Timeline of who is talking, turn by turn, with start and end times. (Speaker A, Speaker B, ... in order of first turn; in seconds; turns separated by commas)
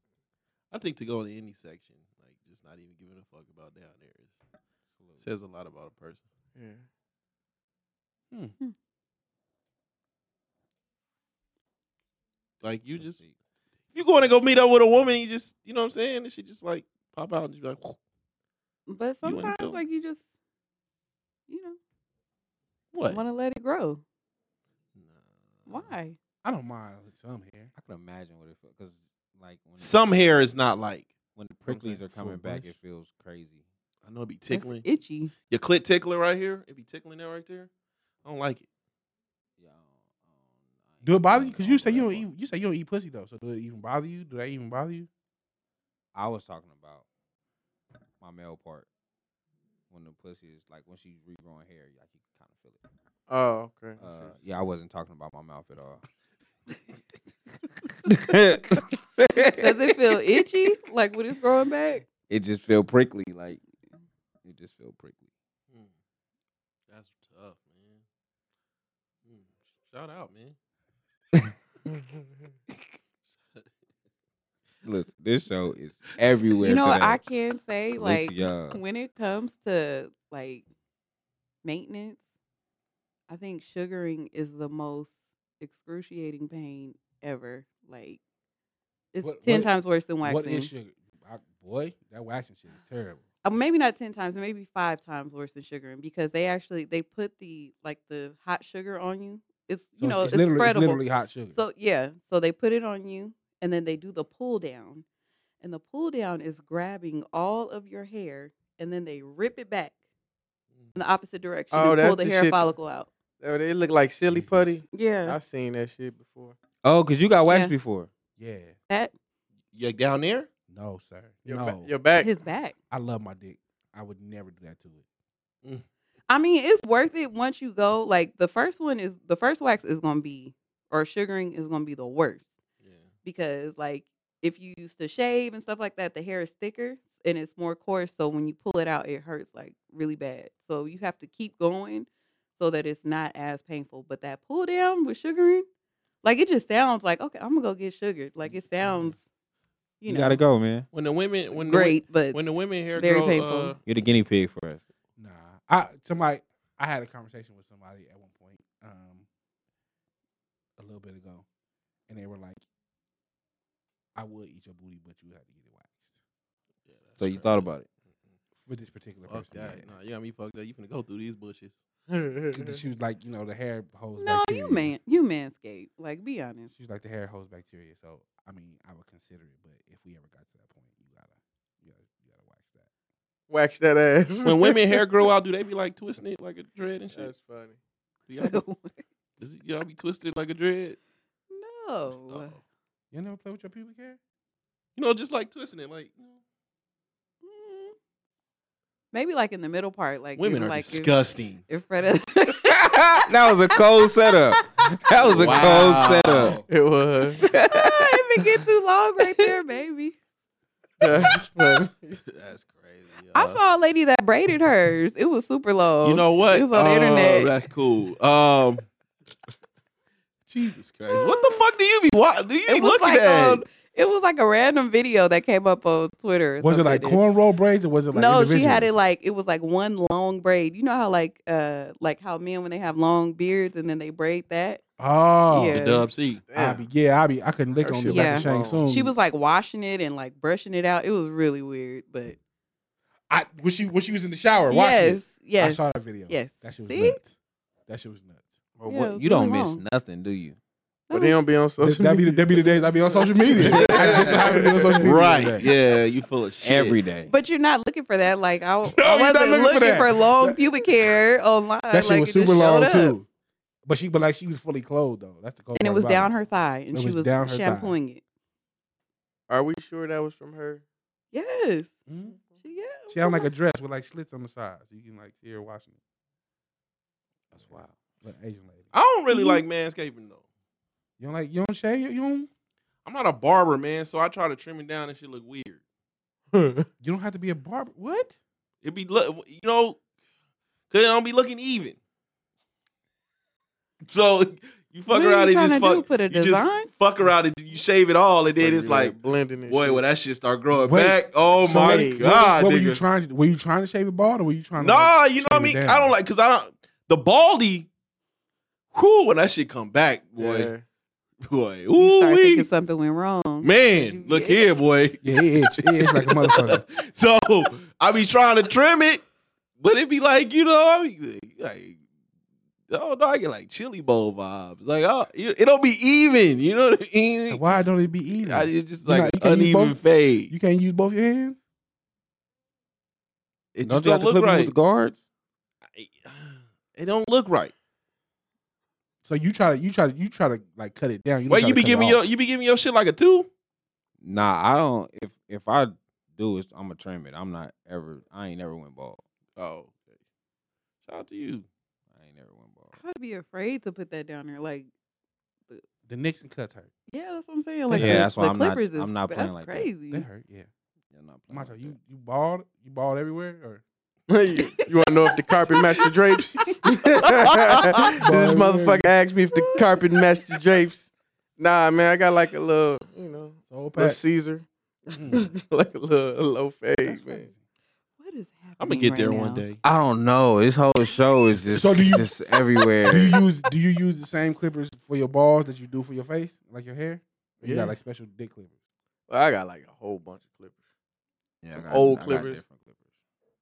Speaker A: 0.7-4.3, Speaker A: 5.2-6.2, Speaker B: 6.5-6.8, Speaker A: 12.6-13.2, Speaker C: 13.0-13.3, Speaker A: 13.9-18.0, Speaker D: 18.9-20.2, Speaker A: 19.2-19.8, Speaker D: 21.5-21.8, Speaker A: 22.9-23.2, Speaker D: 23.1-24.0, Speaker A: 25.0-25.9, Speaker D: 25.7-26.2, Speaker E: 26.4-27.7, Speaker C: 27.7-29.9, Speaker A: 29.8-31.1, Speaker C: 31.3-33.6, Speaker A: 31.7-32.0, Speaker E: 32.0-32.7, Speaker A: 34.0-34.8, Speaker D: 34.5-35.3, Speaker A: 35.5-37.7, Speaker A: 38.2-38.6, Speaker C: 39.6-40.0, Speaker C: 40.9-42.3, Speaker E: 41.0-45.1, Speaker C: 46.1-47.0, Speaker C: 48.2-48.9, Speaker C: 49.9-52.8, Speaker B: 53.3-54.3, Speaker C: 54.0-56.0, Speaker C: 58.0-60.1, Speaker D: 59.5-62.0, Speaker C: 62.3-63.6, Speaker C: 64.4-65.2, Speaker A: 66.9-68.0, Speaker A: 69.2-70.5, Speaker C: 74.8-77.2, Speaker D: 76.6-80.6, Speaker C: 77.9-78.8, Speaker D: 81.6-82.2, Speaker D: 83.3-88.2, Speaker D: 89.1-90.7, Speaker E: 89.2-93.2, Speaker D: 93.4-105.0, Speaker E: 100.0-101.6, Speaker D: 105.6-109.9, Speaker D: 110.9-113.1, Speaker B: 111.7-112.7, Speaker B: 113.4-116.5, Speaker E: 114.3-114.8, Speaker D: 114.9-115.4, Speaker C: 116.8-118.1, Speaker D: 117.5-117.8, Speaker E: 118.4-118.7, Speaker A: 119.7-120.5, Speaker E: 120.7-121.9, Speaker B: 121.5-122.3, Speaker D: 122.2-122.8, Speaker E: 122.9-125.0, Speaker D: 126.3-132.5, Speaker D: 133.2-145.7, Speaker D: 146.2-149.2, Speaker D: 150.0-150.4, Speaker C: 150.1-150.9, Speaker A: 150.9-153.8, Speaker D: 151.5-152.4, Speaker D: 152.9-153.7, Speaker C: 153.8-154.8, Speaker E: 155.2-159.2, Speaker E: 160.8-161.4, Speaker E: 162.1-162.6, Speaker E: 164.1-166.1, Speaker A: 166.9-167.7, Speaker C: 167.2-167.9, Speaker E: 168.7-169.9, Speaker A: 169.2-171.8, Speaker B: 172.1-172.8, Speaker E: 172.5-174.9, Speaker D: 174.2-176.7, Speaker E: 176.7-182.9, Speaker B: 183.5-185.0, Speaker A: 184.4-187.3, Speaker B: 187.1-187.8, Speaker A: 188.3-188.6, Speaker D: 188.4-189.0, Speaker A: 189.4-191.0, Speaker D: 191.5-192.6, Speaker A: 192.3-192.6, Speaker E: 193.1-194.2, Speaker A: 194.9-196.4, Speaker D: 197.4-197.9, Speaker D: 199.1-201.1, Speaker A: 200.3-201.6, Speaker D: 201.7-202.9, Speaker C: 202.6-206.6, Speaker A: 205.2-206.6, Speaker B: 206.7-207.4, Speaker C: 207.4-208.5, Speaker D: 207.4-210.1, Speaker C: 209.2-209.5, Speaker B: 211.0-212.2, Speaker A: 212.3-213.6, Speaker D: 213.3-217.5, Speaker A: 216.0-218.9, Speaker B: 216.7-217.3, Speaker A: 220.5-223.6, Speaker D: 221.1-221.6, Speaker D: 222.7-227.2, Speaker E: 226.6-228.9, Speaker D: 228.1-234.8, Speaker E: 235.0-235.8, Speaker D: 235.5-236.1, Speaker A: 235.7-236.4, Speaker B: 236.5-236.9, Speaker E: 236.5-239.1, Speaker B: 237.8-238.8, Speaker D: 238.1-242.4, Speaker E: 243.3-247.3, Speaker D: 244.7-247.2, Speaker E: 247.9-248.5, Speaker C: 248.8-250.6, Speaker D: 248.9-249.8, Speaker D: 251.1-251.4, Speaker B: 251.1-255.1, Speaker E: 251.8-255.7, Speaker A: 253.7-257.0, Speaker C: 256.6-257.3, Speaker D: 257.3-263.1, Speaker E: 258.9-261.1, Speaker E: 261.9-263.3, Speaker E: 263.9-266.3, Speaker D: 265.8-268.2, Speaker E: 266.9-268.0, Speaker B: 269.5-270.8, Speaker D: 271.3-271.9, Speaker E: 272.1-272.4, Speaker D: 272.6-273.5, Speaker E: 273.1-275.9, Speaker C: 277.5-277.9, Speaker E: 277.6-278.9, Speaker A: 278.9-280.4, Speaker D: 279.3-279.6, Speaker E: 281.2-282.5, Speaker A: 283.0-285.8, Speaker B: 286.5-286.9, Speaker E: 287.0-288.3, Speaker A: 288.8-290.0, Speaker A: 290.9-291.9, Speaker A: 294.1-303.0, Speaker D: 295.1-296.9, Speaker B: 298.6-300.0, Speaker E: 300.7-306.1, Speaker B: 301.6-302.2, Speaker A: 304.8-307.9, Speaker A: 308.9-310.7, Speaker B: 310.4-310.8, Speaker A: 311.4-312.7, Speaker D: 311.9-314.7, Speaker A: 313.6-319.2, Speaker E: 315.2-316.8, Speaker A: 319.8-322.0, Speaker A: 322.9-327.6, Speaker E: 327.5-330.0, Speaker A: 328.4-330.5, Speaker E: 330.5-331.6, Speaker A: 333.7-334.7, Speaker C: 333.8-335.2, Speaker A: 335.9-337.7, Speaker E: 339.2-342.2, Speaker A: 341.5-343.5, Speaker C: 344.2-349.2, Speaker A: 349.6-350.2, Speaker A: 351.0-351.7, Speaker C: 352.2-353.0, Speaker D: 352.9-354.9, Speaker E: 356.1-356.9, Speaker D: 357.1-360.3, Speaker E: 357.9-358.3, Speaker C: 357.9-359.9, Speaker E: 360.1-360.7, Speaker C: 361.1-361.9, Speaker E: 361.5-363.8, Speaker B: 364.3-377.5, Speaker E: 368.1-369.1, Speaker E: 373.7-374.2, Speaker E: 375.1-375.5, Speaker E: 377.1-377.6, Speaker D: 378.2-379.6, Speaker A: 378.8-379.8, Speaker C: 379.8-383.4, Speaker E: 381.7-382.4, Speaker E: 383.0-388.7, Speaker B: 387.6-387.9, Speaker B: 389.3-390.8, Speaker C: 391.6-392.9, Speaker B: 391.7-392.6